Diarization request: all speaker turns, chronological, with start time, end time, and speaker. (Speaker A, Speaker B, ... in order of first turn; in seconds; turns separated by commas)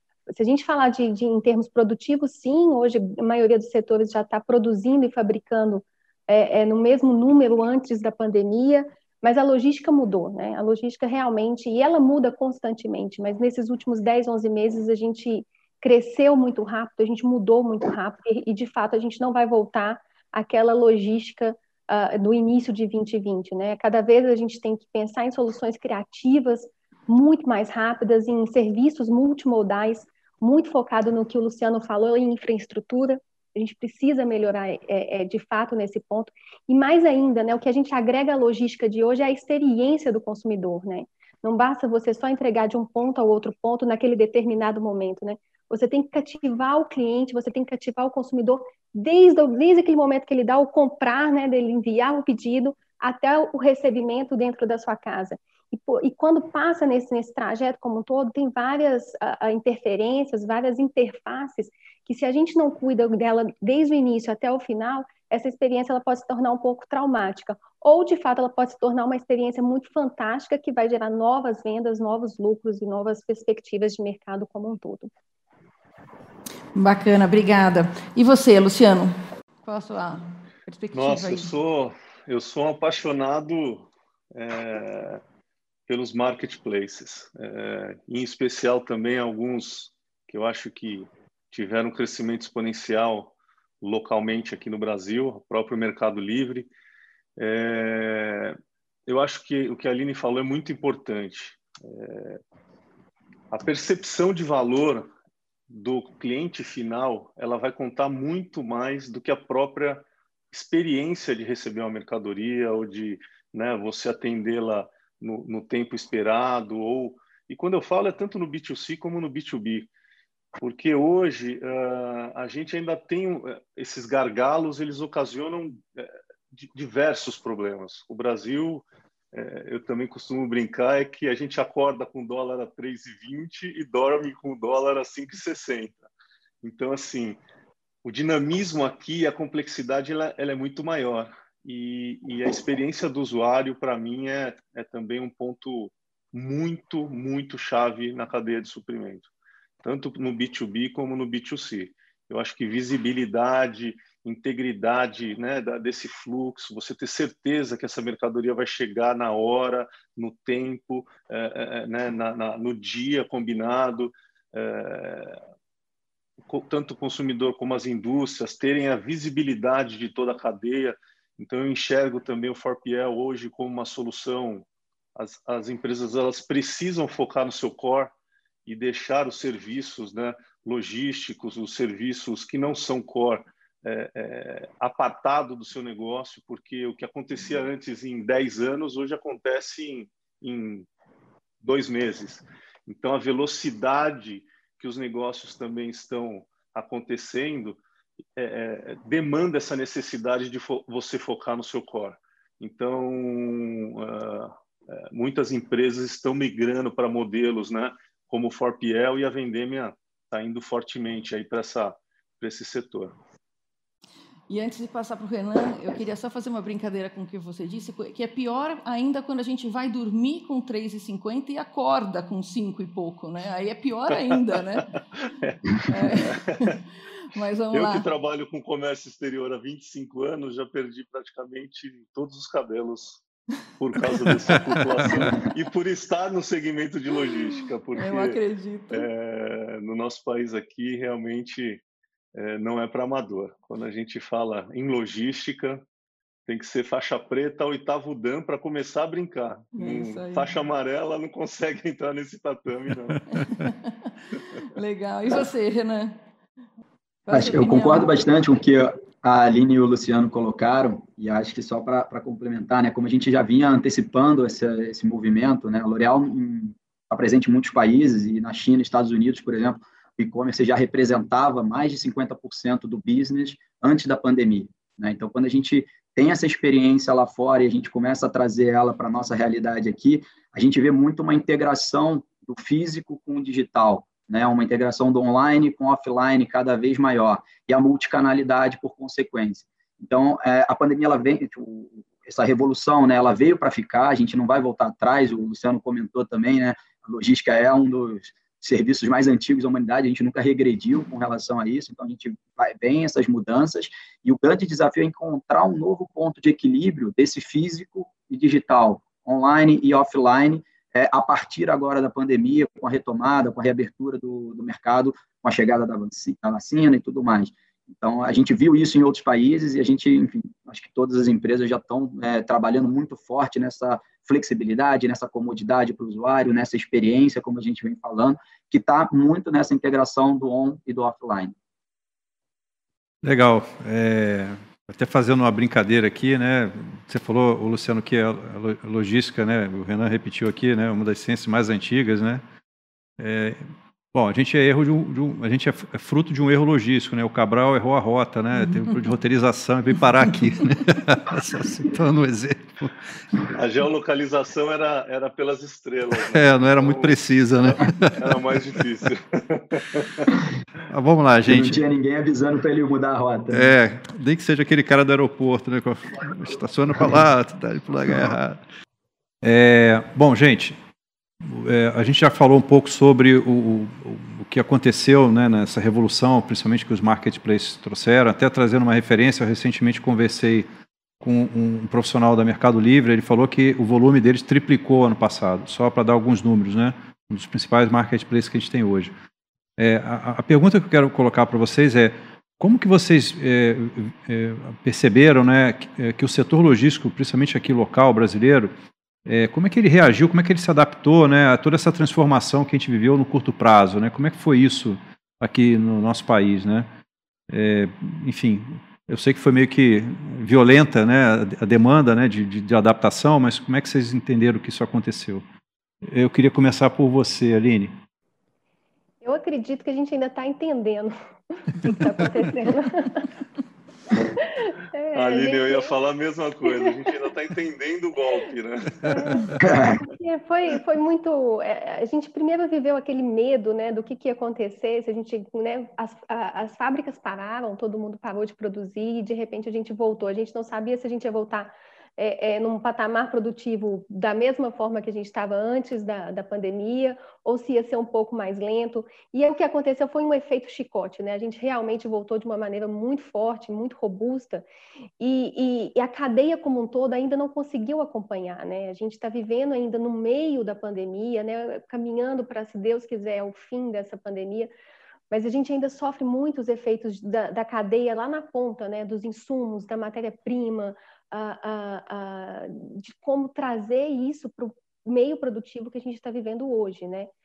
Speaker A: 0.3-75.1, Speaker B: 76.7-81.5, Speaker C: 80.9-85.2, Speaker C: 85.9-96.7, Speaker C: 97.4-102.4, Speaker C: 103.5-105.1, Speaker C: 105.7-119.9, Speaker C: 120.6-136.1, Speaker C: 136.6-137.4, Speaker C: 138.0-149.3, Speaker C: 149.8-165.4, Speaker C: 166.5-178.1, Speaker C: 178.7-190.9, Speaker C: 191.6-197.8, Speaker C: 198.4-213.2, Speaker B: 214.5-225.0, Speaker C: 225.4-226.7, Speaker B: 225.8-228.1, Speaker C: 227.7-233.2, Speaker C: 233.8-241.8, Speaker D: 235.0-235.3, Speaker B: 235.0-235.3, Speaker B: 238.0-239.1, Speaker C: 242.3-245.8, Speaker C: 246.5-253.3, Speaker B: 249.8-250.5, Speaker B: 253.3-256.2, Speaker B: 257.3-258.1, Speaker E: 257.3-331.5, Speaker D: 333.2-342.4, Speaker D: 343.2-353.0, Speaker C: 353.5-357.2, Speaker D: 356.1-358.4, Speaker C: 358.2-360.3, Speaker D: 360.9-361.8, Speaker E: 361.4-363.7, Speaker D: 363.5-368.6, Speaker D: 369.4-370.8, Speaker D: 371.4-380.7, Speaker D: 381.2-389.1, Speaker D: 389.8-398.7, Speaker D: 399.2-406.9, Speaker D: 407.5-415.4, Speaker D: 416.0-417.9, Speaker A: 419.2-423.3, Speaker A: 424.2-425.9, Speaker C: 425.1-429.3, Speaker A: 426.8-427.1, Speaker D: 429.0-429.5, Speaker A: 429.1-429.6, Speaker E: 429.6-430.0, Speaker A: 430.1-454.6, Speaker A: 455.2-464.7, Speaker A: 465.3-477.3